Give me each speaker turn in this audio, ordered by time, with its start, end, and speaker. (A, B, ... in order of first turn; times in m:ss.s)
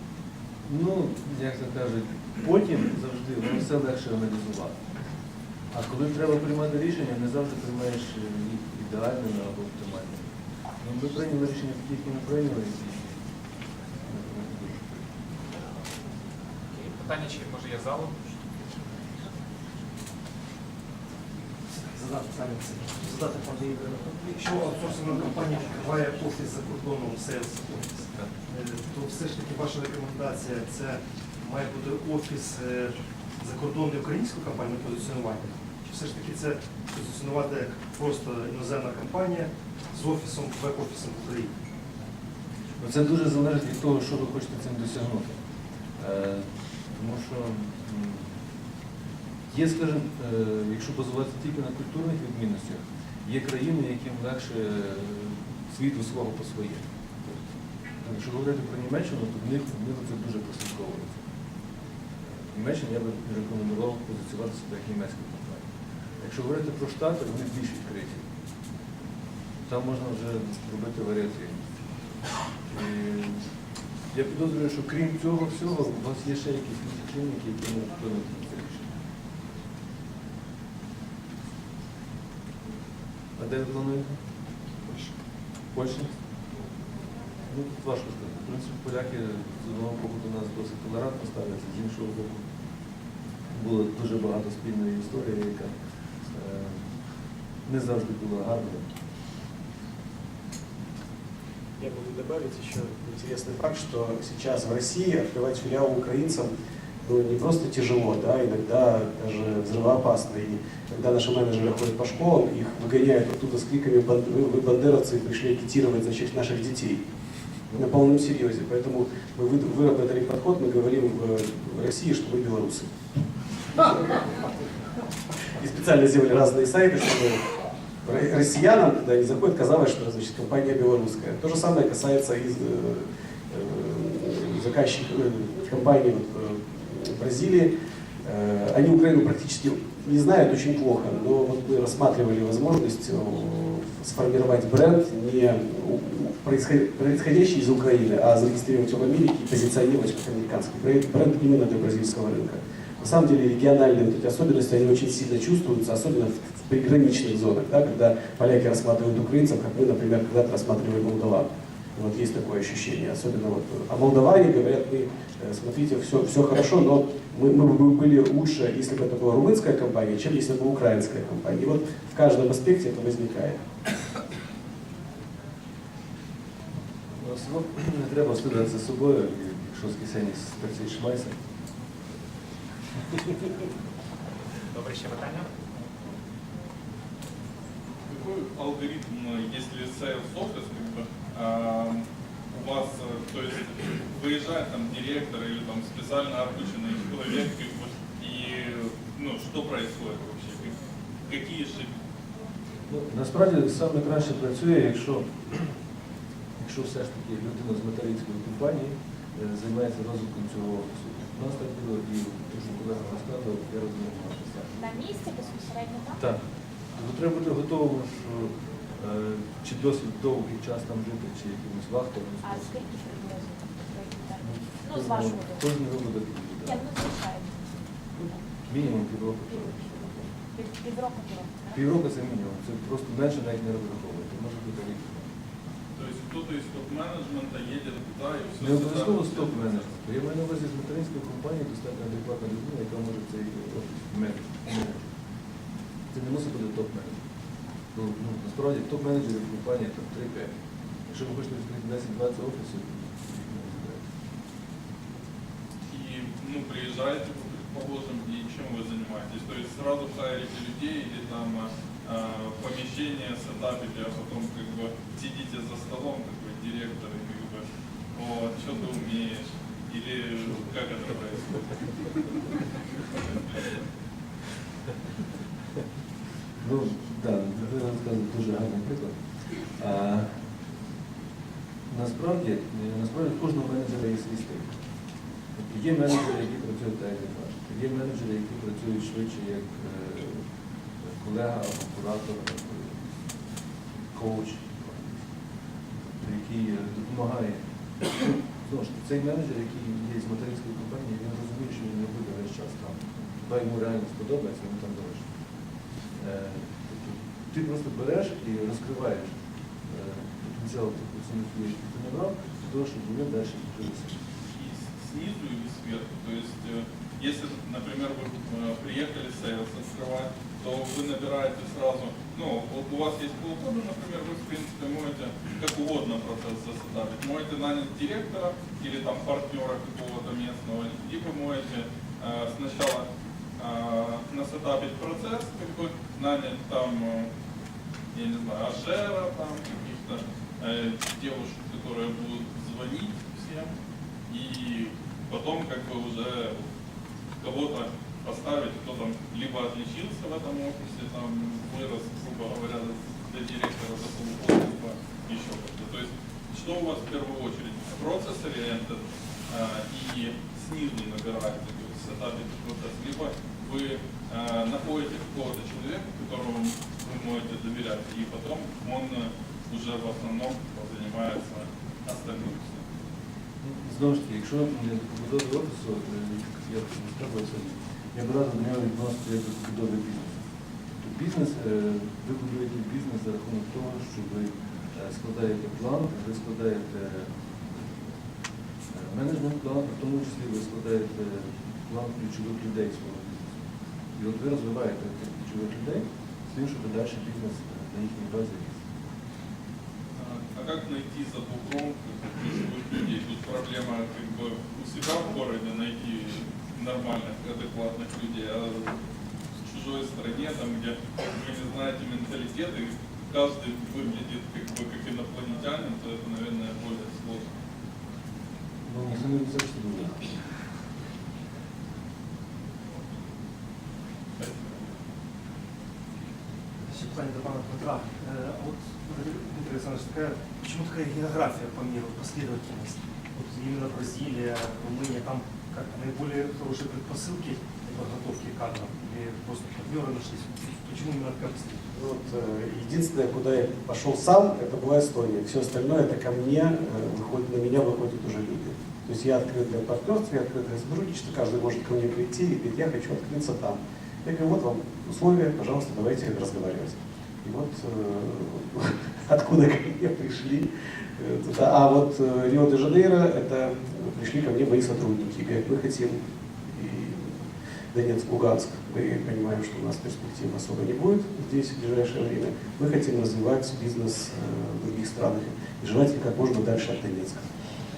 0:00.7-0:04.8 A
0:05.7-0:10.2 A
0:10.8-0:13.2 A
0:14.0-0:15.1 A
0:16.7-0:19.0 B
0:21.7-0:41.5 C
0:42.8-0:45.3 A
0:46.0-0:48.2 A
0:49.5-0:57.3 A
0:58.0-1:01.2 A
1:02.3-1:05.6 A
1:06.2-1:08.2 A
1:09.7-1:11.7 A
1:12.7-1:13.4 A
1:14.1-1:18.9 A
1:23.4-1:24.2 A
1:25.7-1:26.1 A
1:27.5-1:32.4 A
1:33.5-1:35.7 A
1:36.3-1:36.8 A
1:37.6-1:38.9 A
1:41.8-1:46.5 D
1:47.0-1:57.0 D
1:57.7-2:02.9 D
2:05.6-2:07.4 D
2:08.0-2:17.7 D
2:18.2-2:53.6 D
2:57.2-3:01.4 A
3:04.7-3:05.5 B
3:08.1-3:21.9 E
3:22.9-3:25.7 A
3:26.6-3:35.0 A
3:34.8-3:36.2 F
3:36.2-3:36.4 A
3:36.9-3:42.9 A
3:42.4-3:45.7 F
3:44.4-3:46.9 A
3:46.6-3:48.4 F
3:48.6-3:50.4 A
3:50.5-3:51.8 F
3:51.7-3:55.2 A
3:55.9-3:59.7 E
3:58.6-4:05.1 A
4:06.1-4:07.2 A
4:07.9-4:10.5 A
4:11.1-4:14.0 A
4:15.9-4:31.9 E
4:36.6-4:40.3 A
4:41.9-4:44.7 A
4:45.6-4:50.4 A
4:51.0-4:53.2 A
4:54.1-4:55.3 A
4:56.0-5:05.2 A
5:06.2-5:09.3 A
5:09.9-5:14.2 A
5:14.5-5:33.1 E
5:33.6-5:37.3 E
5:38.1-5:43.7 E
5:44.3-5:46.7 E
5:47.4-6:12.8 E
6:13.6-6:20.4 A
6:21.0-6:28.0 A
6:28.9-6:33.6 A
6:34.1-6:38.8 A
6:40.2-6:49.0 E
6:49.6-6:57.5 E
6:58.8-7:00.3 A
7:04.4-7:04.9 E
7:06.9-7:21.8 C
7:21.9-7:57.4 D